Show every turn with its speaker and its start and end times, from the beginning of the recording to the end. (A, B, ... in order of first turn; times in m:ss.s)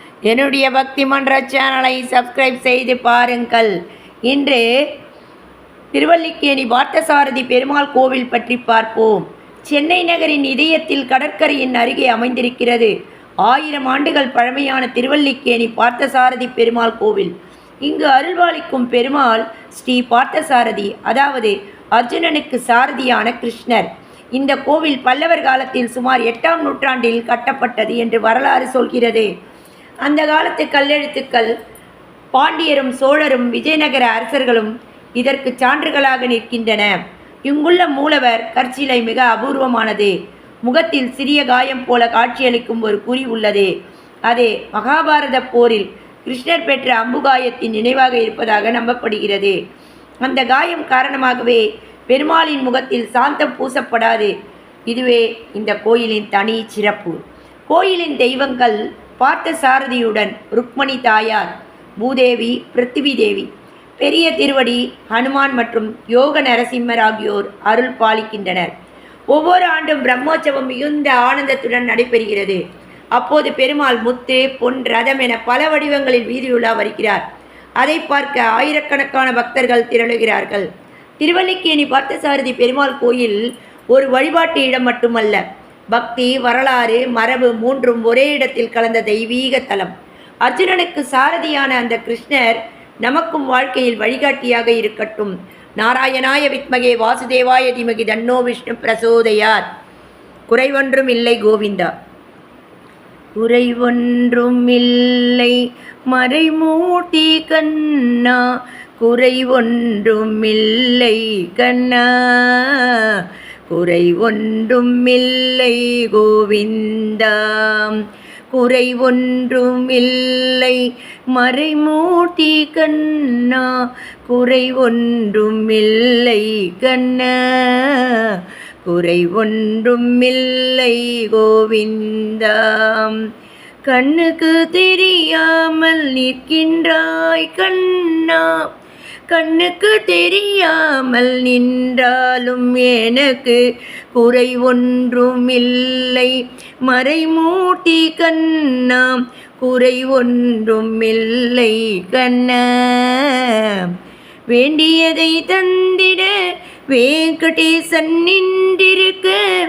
0:00.3-0:03.7 A
0:04.3-0:04.6 A
0:05.9-0:12.9 A
0:13.4-0:17.3 A
0:17.8-0:29.3 A
0:30.0-0:31.5 A
0:32.3-0:40.1 A
0:40.6-0:43.7 A
0:44.3-0:49.6 A
0:50.2-0:54.3 A
0:54.9-1:08.7 A
1:09.3-1:12.6 A
1:13.2-1:17.2 A
1:17.8-1:20.7 A
1:21.2-1:23.4 A
1:23.9-1:29.9 A
1:30.4-1:39.6 A
1:40.5-1:41.9 A
1:43.4-1:45.6 A
1:46.1-1:48.4 A
1:49.0-2:00.8 A
2:01.3-2:13.2 A
2:13.8-2:18.7 A
2:19.3-2:33.9 A
2:34.5-2:36.3 A
2:36.9-2:39.5 A